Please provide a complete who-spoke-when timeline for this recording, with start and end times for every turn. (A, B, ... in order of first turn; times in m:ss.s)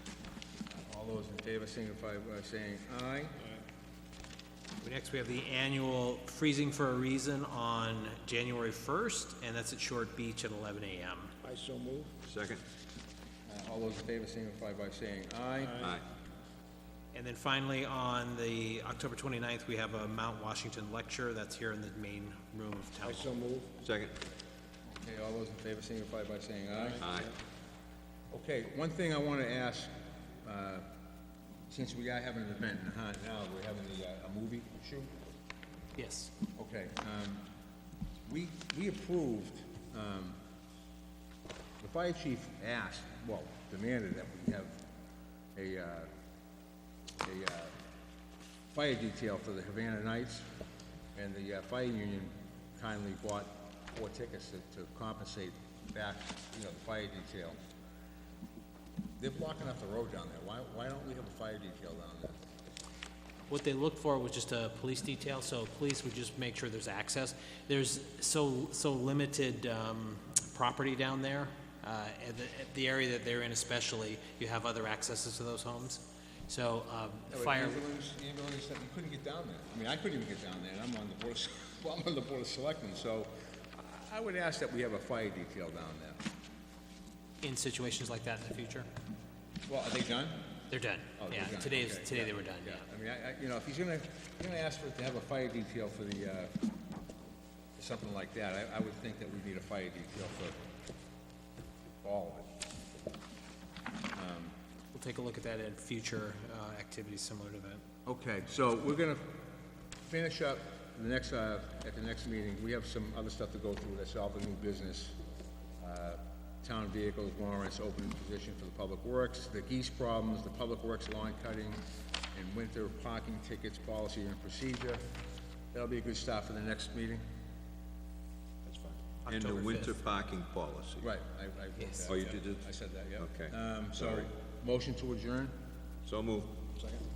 0:00.7-0:03.4 A
0:04.8-0:11.3 B
0:11.4-0:12.2 C
0:12.2-0:12.6 D
0:13.5-0:15.9 A
0:15.6-0:16.0 C
0:15.8-0:16.0 D
0:17.1-0:23.3 B
0:23.0-0:23.8 C
0:23.8-0:24.2 D
0:24.9-0:27.1 A
0:26.9-0:27.3 C
0:27.0-0:27.3 D
0:28.3-0:30.9 A
0:31.7-0:35.1 A
0:36.0-0:36.3 B
0:36.6-0:37.5 A
0:38.3-0:40.4 A
0:41.8-0:44.8 A
0:45.6-0:46.1 A
0:47.2-0:47.7 A
0:48.7-0:50.5 A
0:51.2-0:57.6 A
0:59.2-1:02.4 A
1:03.5-1:17.8 B
1:17.3-1:26.2 A
1:27.4-1:28.9 B
1:29.7-1:30.6 A
1:30.7-1:32.8 B
1:31.2-1:36.5 A
1:37.8-1:40.7 A
1:42.0-1:42.5 A
1:44.1-1:44.5 A
1:44.9-1:47.8 B
1:48.1-1:49.4 A
1:50.1-1:55.2 A
1:55.8-2:05.0 A
2:05.7-2:07.2 A
2:08.7-2:11.1 D
2:09.2-2:10.0 B
2:11.0-2:15.6 A
2:11.8-2:12.4 B
2:12.1-2:14.3 D
2:16.0-2:16.6 D